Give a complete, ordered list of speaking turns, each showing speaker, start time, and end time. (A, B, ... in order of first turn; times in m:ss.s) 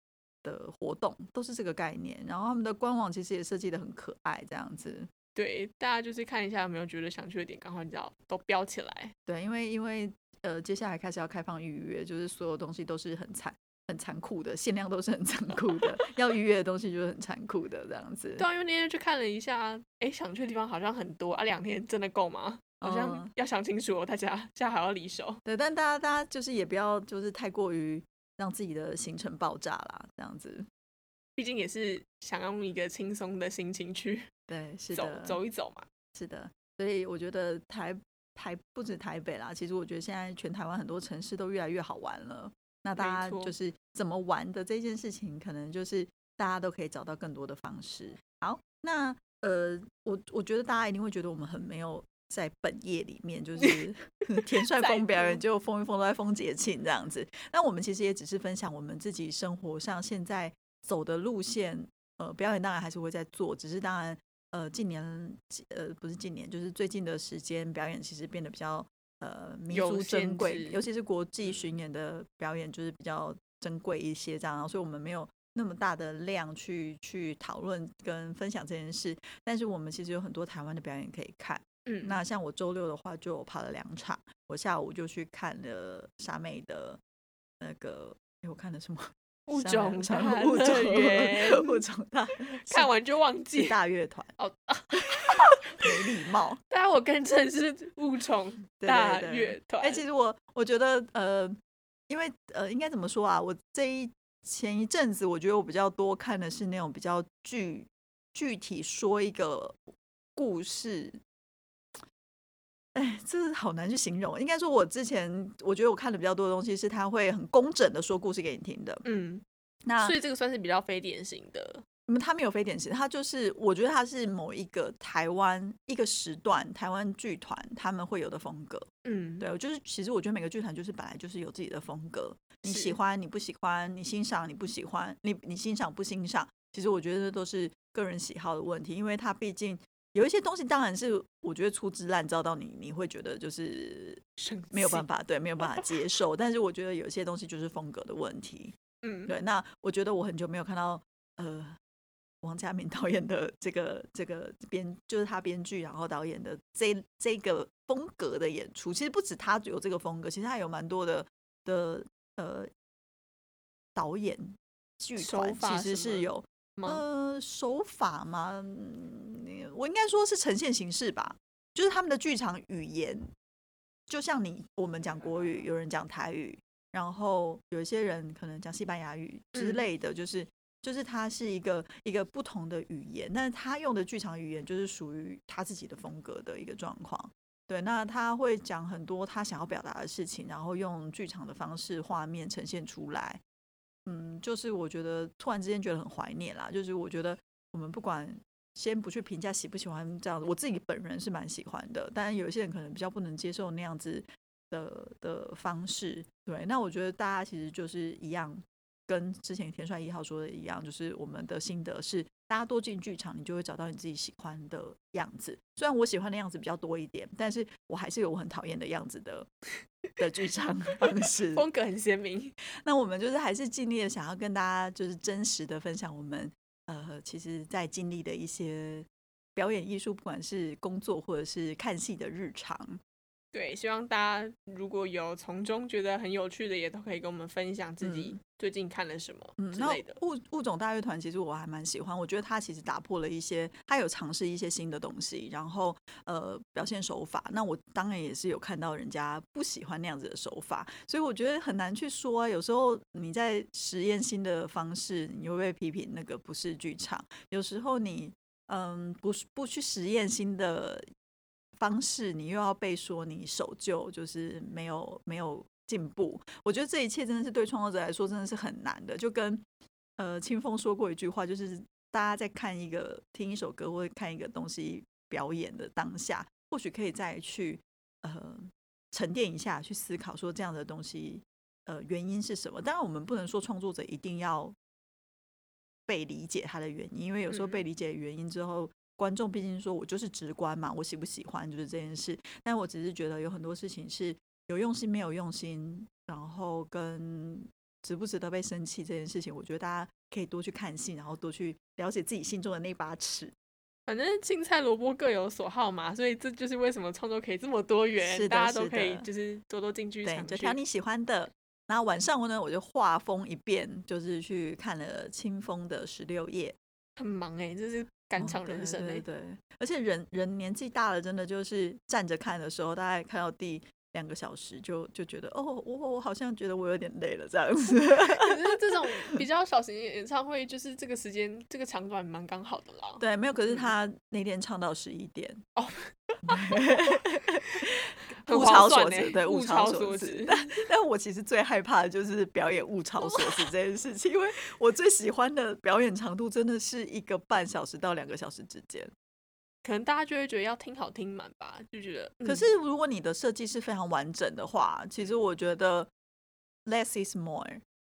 0:00.4-0:05.1 A
0:05.3-0:09.1 B
0:09.3-0:18.4 A
0:18.4-0:25.4 B
0:22.8-0:23.3 A
0:25.4-0:30.6 A
0:31.4-0:34.3 B
0:34.5-0:35.4 A
0:34.9-0:35.8 B
0:36.1-1:27.0 A
0:43.0-0:43.5 B
0:54.4-0:55.4 B
1:09.7-1:10.8 B
1:21.8-1:22.2 B
1:27.6-1:32.9 A
1:29.5-1:31.8 B
1:32.5-1:33.8 B
1:33.5-1:34.3 A
1:34.4-1:36.1 B
1:35.8-1:36.6 A
1:36.7-1:40.0 B
1:38.8-1:41.6 A
1:42.1-1:51.2 A
1:52.9-1:59.0 A
1:59.0-1:59.4 B
1:59.8-2:00.2 A
2:00.0-2:01.8 B
2:02.1-2:08.9 A
2:09.0-2:09.5 B
2:09.4-2:28.7 A
2:12.6-2:13.0 B
2:24.4-2:25.1 B
2:29.0-2:29.3 B
2:29.3-2:31.8 A
2:32.4-2:42.7 A
2:43.9-2:53.3 A
2:45.2-2:47.0 B
2:54.1-3:13.4 A
2:59.5-2:59.8 B
3:14.0-3:39.5 A
3:40.2-3:41.6 A
3:41.5-3:42.5 B
3:42.8-3:53.0 A
3:53.5-4:00.2 B
3:58.0-3:58.4 A
3:59.6-4:21.0 A
4:21.8-4:29.6 A
4:30.2-4:44.7 A
4:46.1-5:03.5 A
4:47.5-4:47.8 B
5:04.1-5:10.8 B
5:08.2-5:09.3 A
5:10.2-5:16.8 A
5:17.2-5:19.2 B
5:18.4-5:28.6 A
5:28.3-5:33.9 B
5:33.2-5:35.6 A
5:35.8-5:37.2 B
5:36.4-5:49.1 A
5:38.4-5:40.8 B
5:43.2-5:43.7 B
5:49.8-5:52.7 B
5:52.4-5:56.1 A
5:56.8-5:57.8 A